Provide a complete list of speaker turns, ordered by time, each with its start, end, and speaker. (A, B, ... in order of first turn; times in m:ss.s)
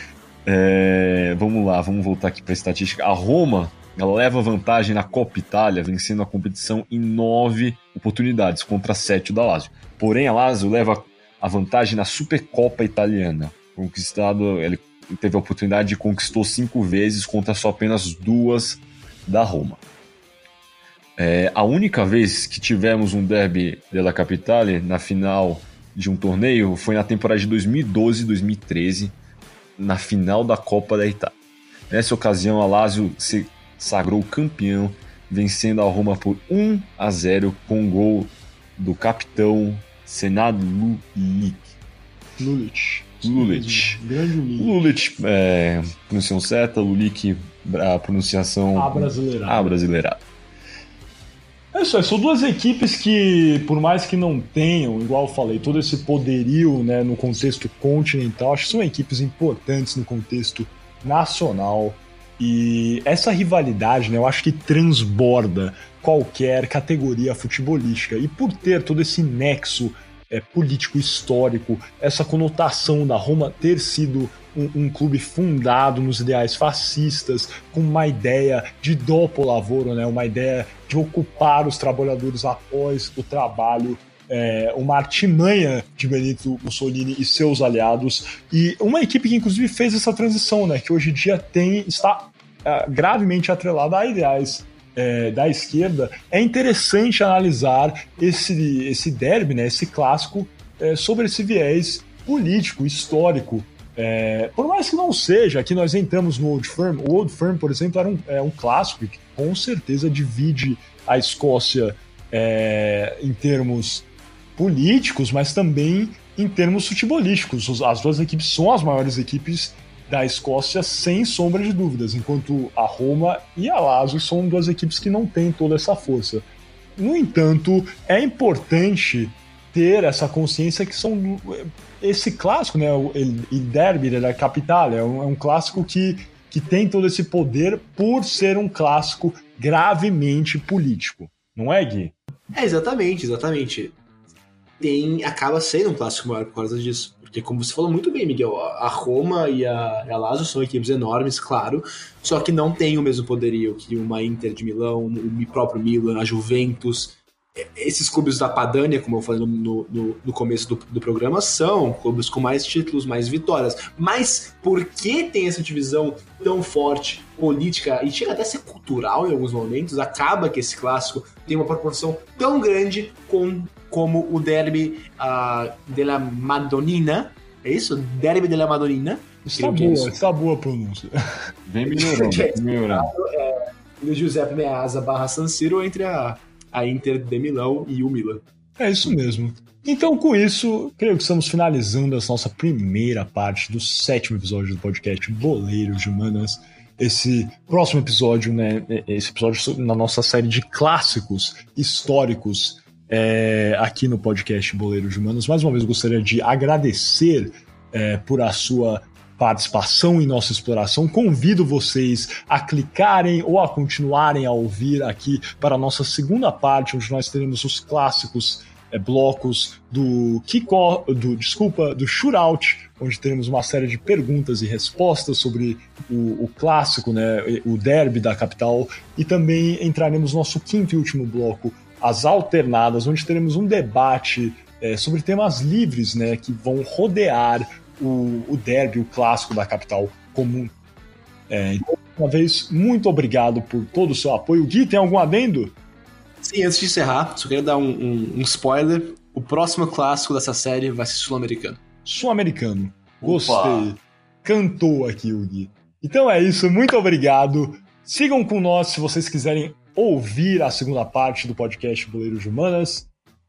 0:00.4-0:19.8 A
0:21.2-0:29.1 A
0:29.8-0:31.3 A
0:31.9-0:41.7 A
0:42.4-0:44.8 B
0:43.2-0:44.0 A
0:44.6-0:50.2 A
0:48.7-0:49.8 B
0:51.7-2:06.4 B
2:07.0-2:22.1 B
2:22.5-2:24.0 C
2:24.8-3:00.2 C
2:59.4-3:01.2 B
3:01.7-3:03.1 A
3:01.9-3:08.4 C
3:08.8-4:00.7 B
4:01.5-4:05.7 B
4:06.4-4:11.8 C
4:12.0-4:23.1 B
4:13.2-4:13.9 A